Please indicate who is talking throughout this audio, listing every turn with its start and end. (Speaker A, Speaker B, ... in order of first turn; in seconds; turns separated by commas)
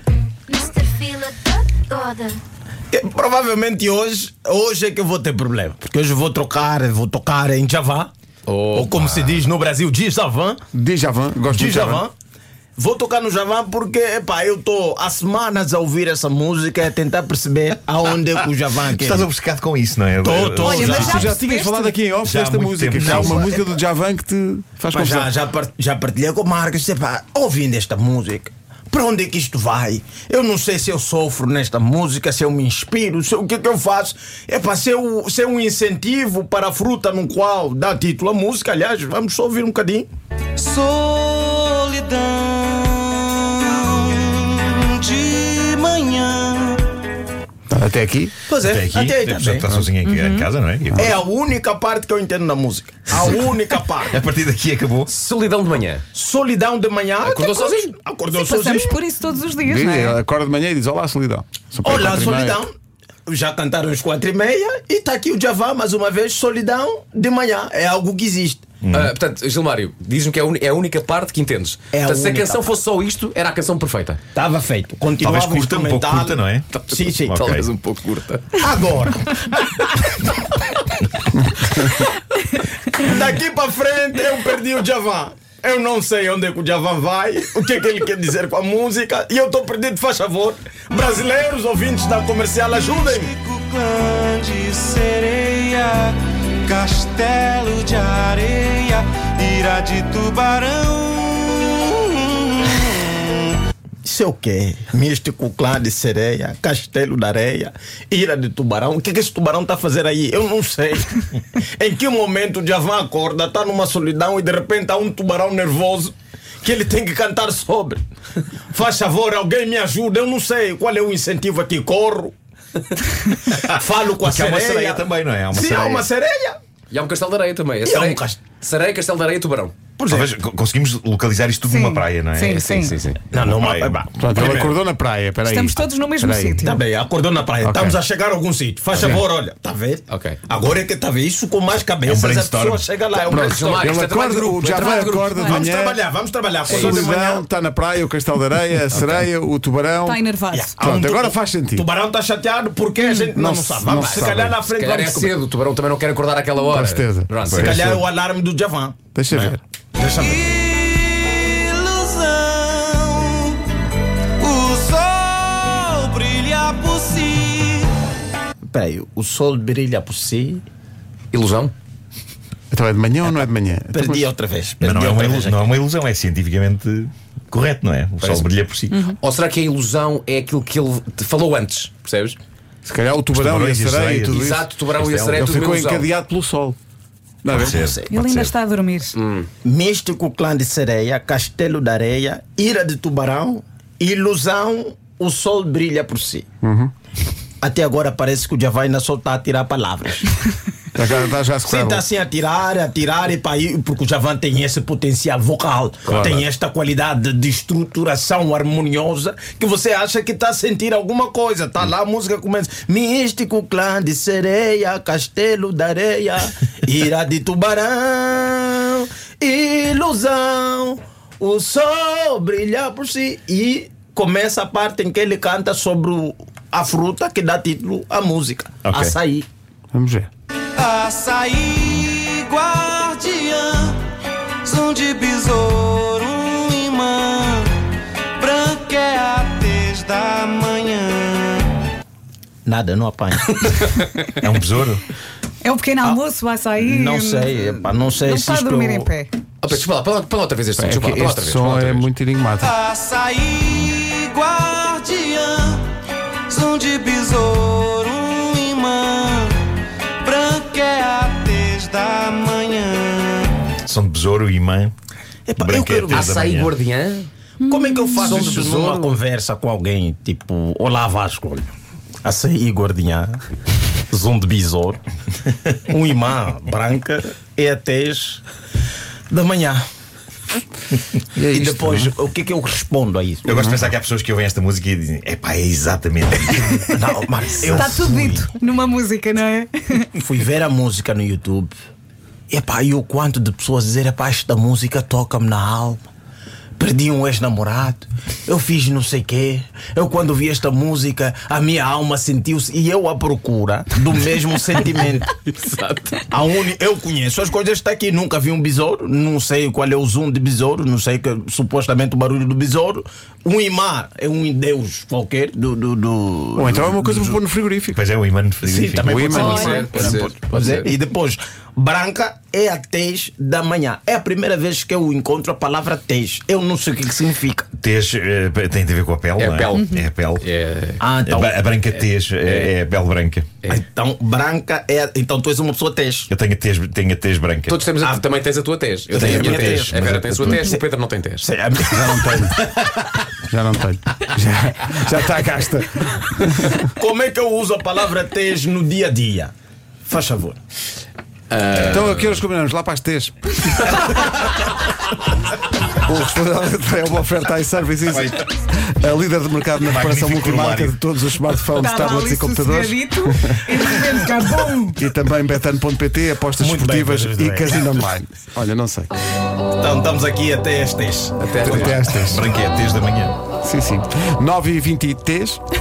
Speaker A: 2.9-8.1, Speaker B: 8.5-9.5, Speaker A: 8.7-10.6, Speaker C: 10.7-12.0, Speaker A: 11.5-12.1, Speaker A: 12.8-19.3, Speaker D: 18.9-21.4, Speaker A: 20.2-21.3, Speaker E: 20.6-21.9, Speaker C: 21.0-25.3, Speaker D: 22.2-23.6, Speaker A: 24.9-40.1, Speaker F: 40.6-46.8, Speaker C: 47.7-48.4, Speaker A: 48.5-49.8, Speaker D: 48.6-51.1, Speaker E: 50.0-50.5, Speaker A: 51.0-54.2, Speaker D: 54.1-55.1, Speaker B: 55.1-56.0, Speaker A: 56.1-59.0, Speaker B: 57.2-58.0, Speaker E: 58.3-60.2, Speaker C: 59.6-62.6, Speaker A: 61.8-62.7, Speaker A: 63.3-68.8, Speaker D: 68.8-69.2, Speaker B: 68.9-74.2, Speaker A: 71.9-72.7, Speaker A: 74.3-77.4, Speaker D: 75.2-76.7, Speaker B: 76.7-78.6, Speaker D: 77.3-77.7, Speaker A: 78.6-80.3, Speaker A: 82.9-93.3, Speaker F: 92.9-102.5, Speaker A: 104.0-118.0, Speaker A: 118.7-122.3, Speaker A: 123.8-126.6, Speaker D: 124.2-126.1, Speaker B: 126.9-129.8, Speaker A: 127.8-128.4, Speaker A: 130.0-130.3, Speaker D: 130.1-132.7, Speaker E: 131.7-133.0, Speaker B: 132.5-133.2, Speaker A: 133.3-134.8, Speaker D: 133.5-134.0, Speaker C: 134.2-136.7, Speaker E: 135.4-136.8, Speaker A: 136.6-143.9, Speaker C: 137.6-138.0, Speaker C: 138.9-139.2, Speaker B: 140.1-140.4, Speaker D: 142.0-142.8, Speaker C: 143.2-146.0, Speaker B: 143.3-145.7, Speaker A: 144.8-147.5, Speaker C: 146.7-151.9, Speaker B: 146.7-147.2, Speaker B: 148.9-149.3, Speaker E: 150.1-150.8, Speaker A: 150.5-155.3, Speaker C: 153.3-154.6, Speaker B: 154.7-157.9, Speaker C: 156.7-158.0, Speaker D: 157.5-157.8, Speaker A: 157.5-160.6, Speaker C: 159.1-159.6, Speaker F: 160.3-163.6, Speaker F: 164.4-167.9, Speaker A: 168.6-170.6, Speaker B: 171.3-171.7, Speaker C: 172.7-174.3, Speaker A: 173.9-175.7, Speaker D: 174.8-179.1, Speaker B: 178.2-178.5, Speaker B: 179.2-182.4, Speaker C: 182.8-184.7, Speaker D: 183.3-185.5, Speaker B: 184.3-186.1, Speaker C: 185.3-186.8, Speaker C: 187.4-188.3, Speaker A: 187.5-188.1, Speaker D: 187.5-188.5, Speaker E: 188.1-189.2, Speaker B: 189.2-189.5, Speaker A: 189.6-196.5, Speaker C: 196.6-196.9, Speaker A: 197.6-200.4, Speaker C: 200.9-202.0, Speaker A: 201.7-229.5, Speaker C: 206.1-206.4, Speaker D: 228.8-229.2, Speaker C: 229.9-230.3, Speaker F: 230.8-234.1, Speaker F: 234.6-237.8, Speaker F: 238.4-241.7, Speaker A: 242.7-243.6, Speaker B: 243.6-244.1, Speaker D: 244.4-245.0, Speaker E: 245.6-249.3, Speaker A: 246.8-249.1, Speaker B: 249.6-252.1, Speaker C: 250.8-252.8, Speaker F: 252.6-255.9, Speaker F: 256.5-259.6, Speaker F: 260.2-263.6, Speaker D: 263.9-264.9, Speaker A: 265.5-266.4, Speaker D: 265.6-266.8, Speaker B: 266.1-267.3, Speaker E: 267.6-268.4, Speaker A: 267.6-271.7, Speaker B: 268.1-269.2, Speaker A: 272.2-273.4, Speaker A: 274.1-275.0, Speaker A: 275.9-278.4, Speaker A: 279.3-279.8, Speaker C: 281.4-282.1, Speaker A: 281.5-283.8, Speaker D: 283.4-286.9, Speaker A: 286.9-288.5, Speaker D: 287.6-288.1, Speaker E: 287.7-290.1, Speaker A: 290.2-291.7, Speaker A: 292.5-296.0, Speaker A: 296.8-305.3, Speaker B: 305.5-306.2, Speaker A: 306.3-317.4, Speaker C: 316.6-318.0, Speaker D: 317.9-319.2, Speaker A: 318.6-327.7, Speaker C: 319.0-320.3, Speaker B: 319.2-320.9, Speaker E: 319.3-319.9, Speaker D: 327.8-330.5, Speaker B: 329.4-331.1, Speaker E: 329.8-330.1, Speaker A: 331.0-331.6, Speaker D: 331.2-333.5, Speaker B: 331.9-332.7, Speaker A: 333.7-336.3, Speaker D: 336.3-337.9, Speaker B: 337.7-341.5, Speaker A: 338.0-338.3, Speaker A: 339.1-343.1, Speaker C: 339.1-340.6, Speaker D: 339.4-339.6, Speaker C: 341.9-342.6, Speaker C: 343.5-346.9, Speaker A: 346.9-349.5, Speaker A: 350.1-350.6, Speaker B: 351.5-352.4, Speaker C: 351.8-353.9, Speaker C: 356.0-363.8, Speaker D: 358.1-358.5, Speaker D: 359.9-360.9, Speaker E: 361.7-365.0, Speaker C: 364.9-369.1, Speaker A: 366.6-367.8, Speaker A: 369.8-372.2, Speaker B: 371.4-372.1, Speaker C: 371.6-372.4, Speaker D: 372.2-373.4, Speaker C: 373.6-375.6